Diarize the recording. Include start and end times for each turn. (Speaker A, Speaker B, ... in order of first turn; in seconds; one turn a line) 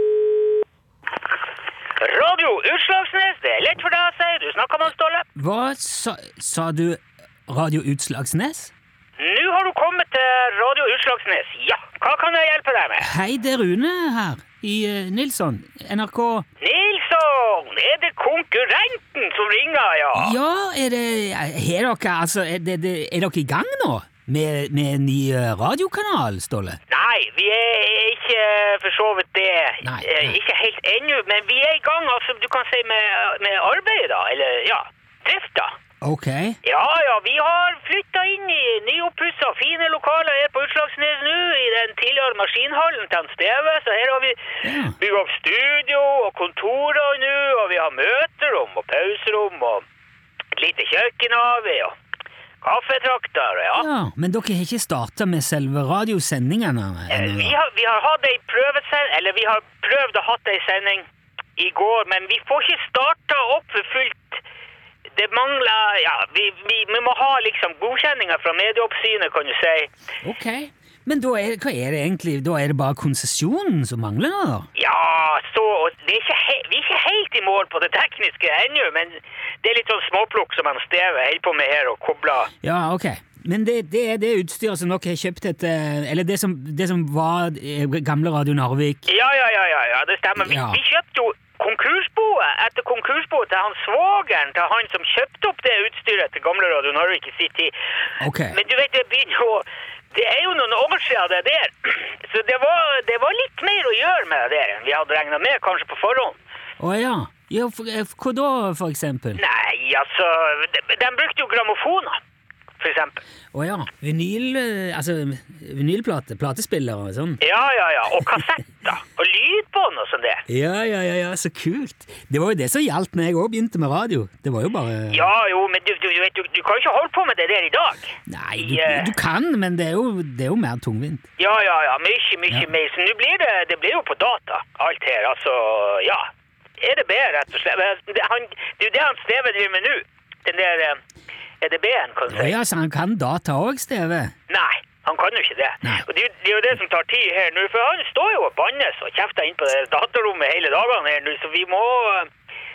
Speaker A: 2.0-5.3
Speaker B: 5.3-8.7
Speaker A: 9.2-13.1
Speaker B: 13.0-16.4
Speaker A: 16.6-20.4
Speaker B: 20.1-26.8
Speaker A: 26.9-35.7
Speaker B: 29.8-30.4
Speaker B: 36.0-36.6
Speaker A: 36.6-49.8
Speaker B: 44.6-45.0
Speaker A: 50.5-52.0
Speaker A: 52.6-53.9
Speaker B: 53.7-57.5
Speaker A: 57.1-64.4
Speaker A: 65.2-69.9
Speaker B: 70.2-74.7
Speaker A: 74.7-82.5
Speaker B: 82.6-89.1
Speaker A: 89.1-97.7
Speaker B: 90.4-90.8
Speaker B: 98.2-98.6
Speaker A: 98.5-106.3
Speaker B: 106.8-109.4
Speaker A: 109.4-112.2
Speaker A: 112.8-113.2
Speaker B: 113.5-117.4
Speaker A: 117.4-120.4
Speaker B: 120.5-125.3
Speaker A: 125.1-129.2
Speaker B: 128.3-131.2
Speaker A: 131.4-136.3
Speaker A: 136.8-141.0
Speaker A: 141.6-142.6
Speaker B: 142.3-144.3
Speaker A: 144.5-152.3